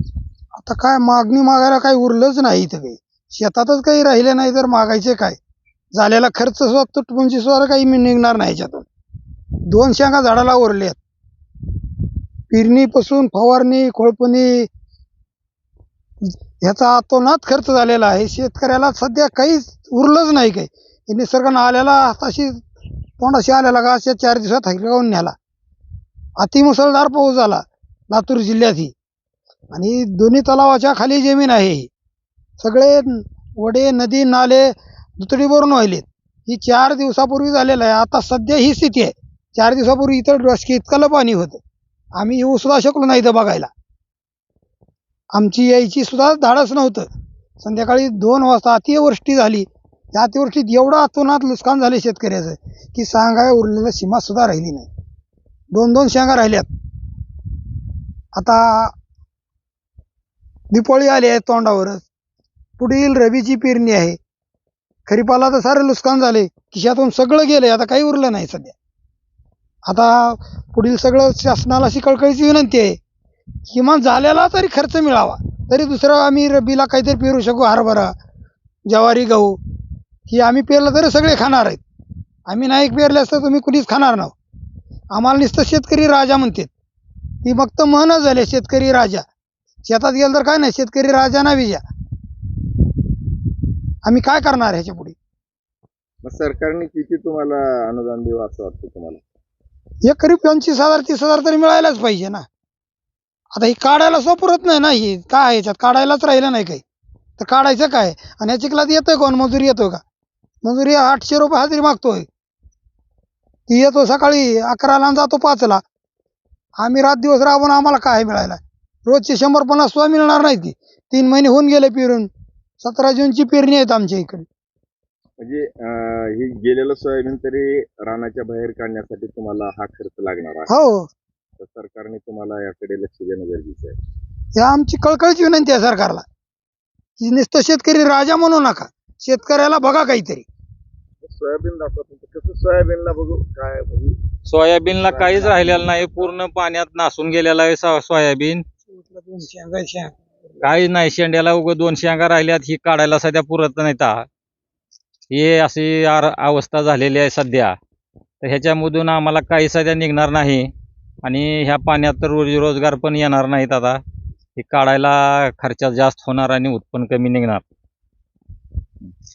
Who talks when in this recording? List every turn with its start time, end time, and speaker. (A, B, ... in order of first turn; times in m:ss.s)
0:00.6-0:05.4 A
0:05.9-0:08.8 A
0:09.6-0:11.0 A
0:12.5-0:14.7 A
0:16.6-0:22.7 A
0:23.2-0:25.3 A
0:26.4-0:28.9 A
0:29.7-0:31.9 A
0:32.6-0:41.6 A
0:42.2-0:43.7 A
0:45.3-0:47.1 A
0:47.6-0:54.9 A
0:55.7-0:56.7 A
0:58.3-0:58.9 A
1:00.7-1:02.0 A
1:02.8-1:04.2 A
1:05.1-1:08.7 A
1:09.8-1:13.0 A
1:13.7-1:18.1 A
1:18.9-1:19.6 A
1:20.3-1:21.8 A
1:22.5-1:24.3 A
1:25.1-1:26.7 A
1:27.4-1:29.2 A
1:29.8-1:31.8 A
1:34.0-1:35.1 A
1:36.2-1:39.2 B
1:40.0-1:42.4 A
1:43.5-1:46.8 A
1:47.4-1:50.0 A
1:50.6-1:52.3 A
1:53.7-1:55.8 A
1:56.8-2:02.3 A
2:02.8-2:04.4 A
2:05.4-2:10.7 B
2:10.7-2:11.1 A
2:11.6-2:13.9 B
2:14.6-2:16.2 A
2:17.2-2:20.4 A
2:21.2-2:24.1 B
2:24.5-2:28.6 C
2:24.8-2:26.3 B
2:28.9-2:30.2 A
2:30.6-2:34.2 C
2:35.3-2:37.7 C
2:38.4-2:40.7 C
2:41.2-2:44.0 C
2:44.6-2:47.6 C